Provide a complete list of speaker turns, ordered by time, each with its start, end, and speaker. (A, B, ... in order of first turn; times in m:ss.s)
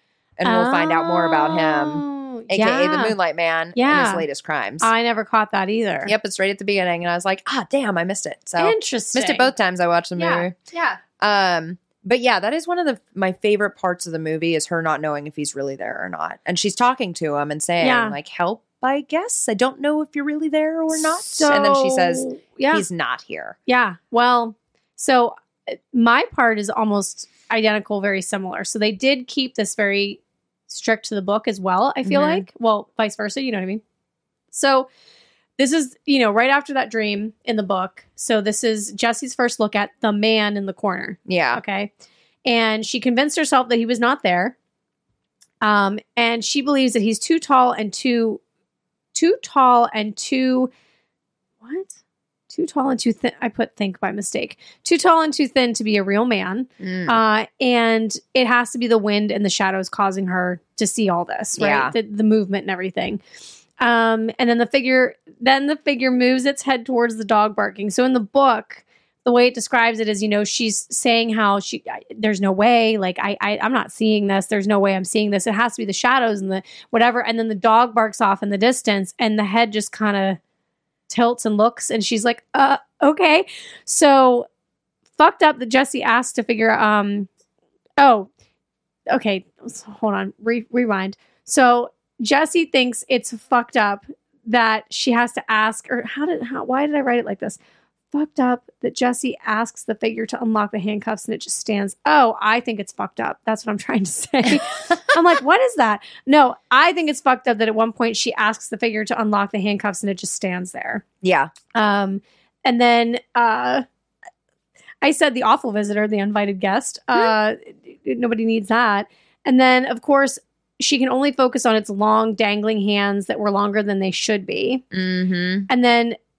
0:00.4-0:04.9 A
0:00.4-0:03.2 B
0:03.7-0:04.2 B
0:04.8-0:06.1 B
0:06.0-0:10.5 A
0:08.6-0:09.5 B
0:10.2-0:11.0 B
0:11.2-0:23.6 A
0:17.8-0:18.2 B
0:21.0-0:22.8 B
0:23.7-0:33.8 B
0:32.0-0:32.4 A
0:34.5-0:34.9 B
0:35.6-0:41.9 B
0:41.3-0:41.6 A
0:42.4-0:44.6 B
0:45.6-0:48.4 B
0:49.1-0:50.7 B
0:51.6-0:52.0 B
0:52.5-1:03.2 B
0:56.8-0:57.2 A
1:01.6-1:01.9 A
1:03.8-1:20.4 B
1:21.1-1:24.5 B
1:25.2-1:27.3 B
1:28.0-1:28.3 B
1:29.1-1:37.6 B
1:38.1-1:51.0 B
1:51.2-1:51.5 A
1:51.7-1:53.8 B
1:55.0-2:04.8 B
2:04.9-2:05.7 A
2:05.7-2:06.2 B